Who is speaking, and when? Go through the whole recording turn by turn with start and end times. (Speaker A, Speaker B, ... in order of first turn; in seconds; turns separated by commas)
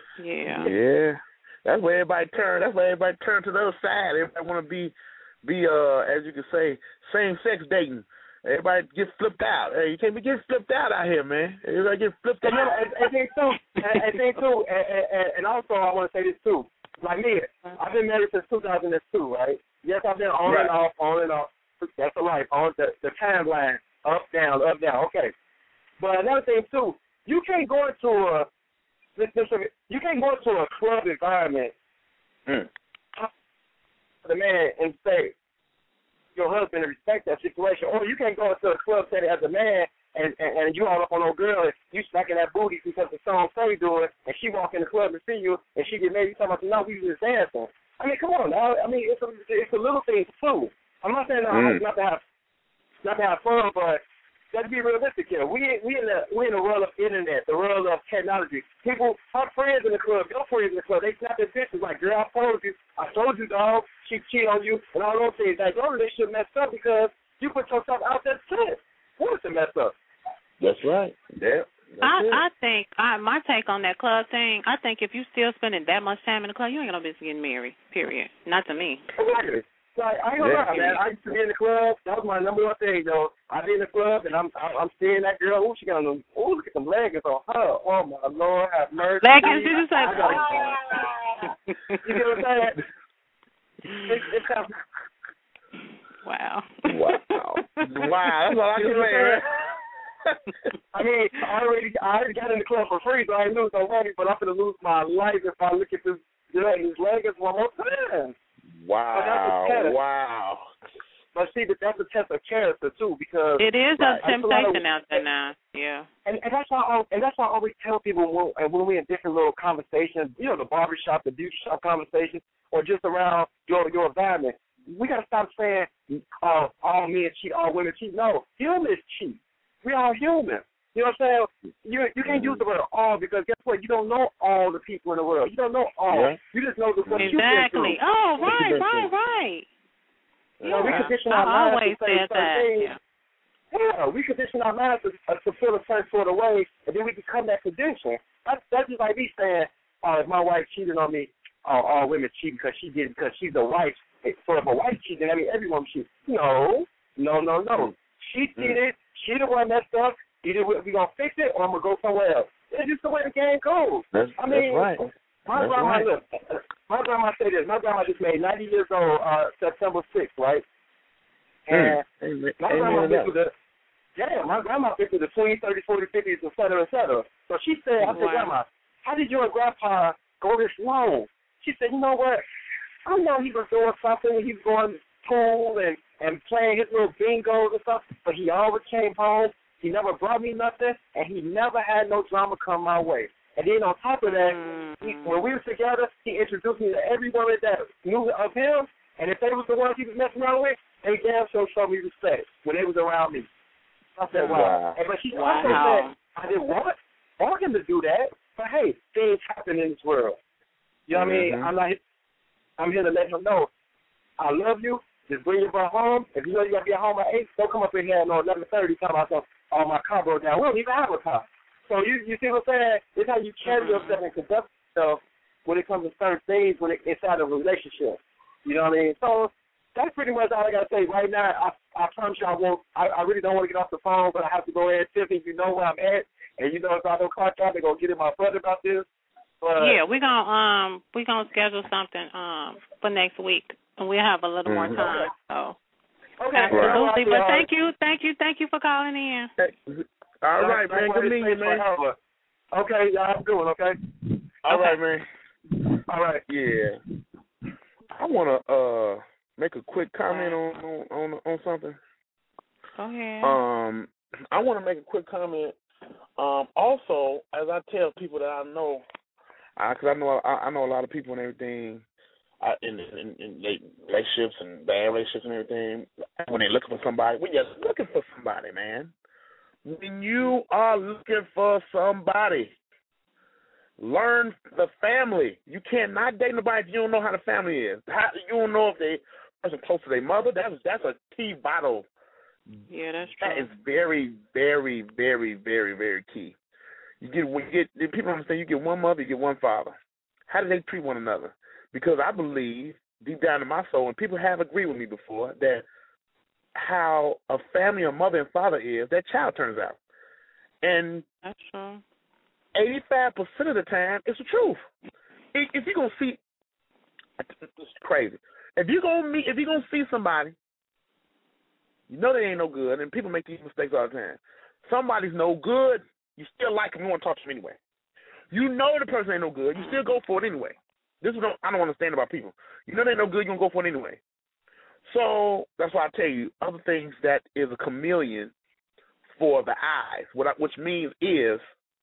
Speaker A: 0.2-0.7, Speaker B: 0.5-12.8, Speaker C: 12.4-25.3, Speaker B: 20.5-20.7, Speaker C: 26.0-28.5, Speaker C: 29.2-31.7, Speaker C: 34.2-35.3, Speaker C: 36.4-52.2, Speaker B: 51.5-51.8, Speaker C: 53.0-54.0, Speaker C: 54.5-70.0, Speaker B: 70.6-72.4, Speaker A: 72.0-79.0, Speaker C: 79.2-90.8, Speaker B: 80.4-81.0, Speaker A: 89.2-90.8, Speaker B: 90.1-91.5, Speaker A: 91.7-92.0, Speaker C: 92.0-92.8, Speaker A: 93.9-94.2, Speaker C: 94.1-94.7, Speaker A: 96.2-98.3, Speaker B: 96.9-99.5, Speaker C: 98.8-99.4, Speaker C: 100.9-108.3, Speaker B: 108.7-110.7, Speaker C: 109.1-110.0, Speaker C: 111.3-114.8, Speaker A: 113.6-116.1, Speaker C: 116.3-138.0, Speaker B: 132.2-132.6, Speaker B: 136.1-136.4, Speaker B: 137.0-139.1, Speaker A: 137.2-139.7, Speaker B: 140.6-141.1, Speaker A: 140.6-143.0, Speaker C: 140.7-142.9, Speaker C: 143.7-165.0, Speaker B: 164.1-166.1, Speaker C: 165.5-170.7, Speaker C: 171.7-172.0, Speaker B: 171.7-173.3, Speaker C: 172.6-173.5, Speaker C: 174.2-182.4, Speaker A: 178.1-178.5, Speaker C: 183.1-203.5, Speaker A: 194.3-195.4, Speaker C: 204.2-210.4, Speaker A: 204.3-204.6, Speaker B: 204.5-205.0, Speaker A: 205.3-206.1, Speaker C: 211.1-212.0, Speaker B: 211.1-211.7, Speaker C: 212.8-213.7, Speaker C: 214.4-239.1, Speaker A: 223.7-224.2, Speaker C: 239.6-240.0, Speaker A: 239.8-245.8, Speaker B: 244.7-245.1, Speaker C: 245.0-245.3, Speaker C: 246.4-247.7, Speaker A: 246.5-249.5, Speaker B: 246.7-247.0, Speaker B: 249.6-251.8, Speaker C: 250.6-252.2, Speaker C: 252.7-254.0, Speaker B: 254.6-255.3, Speaker A: 254.7-255.0, Speaker C: 256.1-256.4, Speaker B: 256.5-257.0, Speaker B: 258.1-262.0, Speaker A: 260.3-260.6, Speaker A: 263.0-263.6, Speaker B: 263.4-265.8, Speaker B: 266.4-269.0, Speaker B: 269.8-272.1, Speaker B: 272.6-279.1, Speaker B: 279.9-282.8, Speaker B: 284.0-292.1, Speaker A: 292.9-293.7, Speaker B: 293.4-296.6, Speaker B: 297.2-299.9, Speaker B: 300.5-305.9, Speaker B: 306.8-310.0, Speaker B: 310.8-311.2, Speaker A: 311.4-312.0, Speaker B: 312.8-314.8, Speaker B: 315.5-316.4, Speaker B: 317.4-320.6, Speaker B: 322.1-327.8, Speaker B: 328.5-334.2, Speaker B: 335.1-338.5, Speaker B: 339.4-341.6